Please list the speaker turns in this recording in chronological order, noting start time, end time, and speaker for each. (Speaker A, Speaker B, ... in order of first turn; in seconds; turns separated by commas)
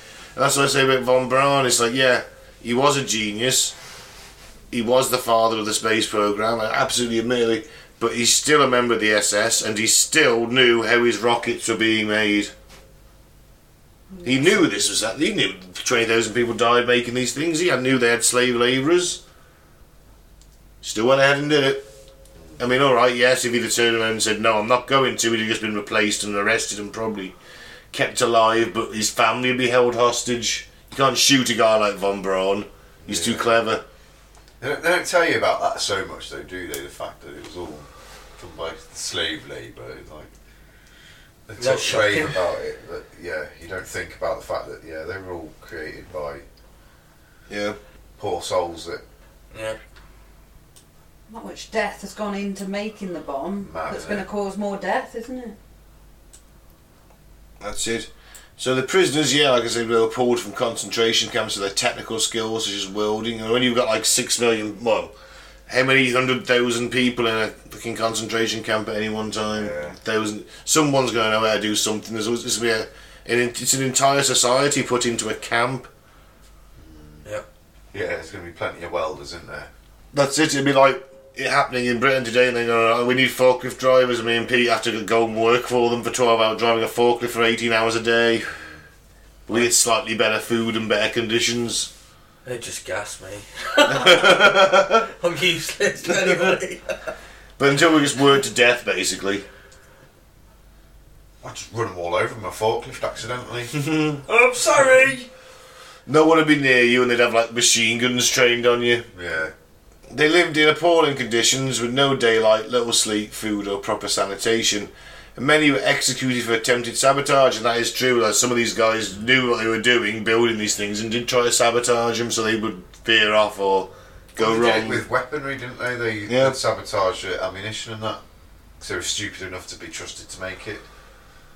Speaker A: 0.4-3.8, Speaker A: 4.7-12.5, Speaker A: 14.2-19.2, Speaker A: 20.8-21.9, Speaker A: 22.6-27.4, Speaker A: 27.9-33.8, Speaker B: 33.0-33.4, Speaker B: 34.6-40.3, Speaker B: 41.5-46.4, Speaker C: 41.6-42.4, Speaker A: 47.5-47.8, Speaker B: 48.2-49.0, Speaker C: 49.5-49.8, Speaker D: 51.3-55.6, Speaker B: 53.7-54.3, Speaker A: 57.6-65.1, Speaker A: 65.7-75.9, Speaker B: 69.5-70.0, Speaker B: 76.8-77.2, Speaker B: 77.9-79.7, Speaker A: 80.1-88.6, Speaker A: 89.5-91.9, Speaker C: 92.5-97.1, Speaker A: 93.9-95.1, Speaker A: 96.1-96.5, Speaker A: 97.6-99.5, Speaker B: 101.4-103.8, Speaker A: 103.7-104.2, Speaker C: 104.3-105.3, Speaker A: 106.1-109.1, Speaker B: 109.1-109.5, Speaker A: 110.1-125.0, Speaker B: 124.4-128.2, Speaker A: 126.3-126.5, Speaker B: 128.8-130.8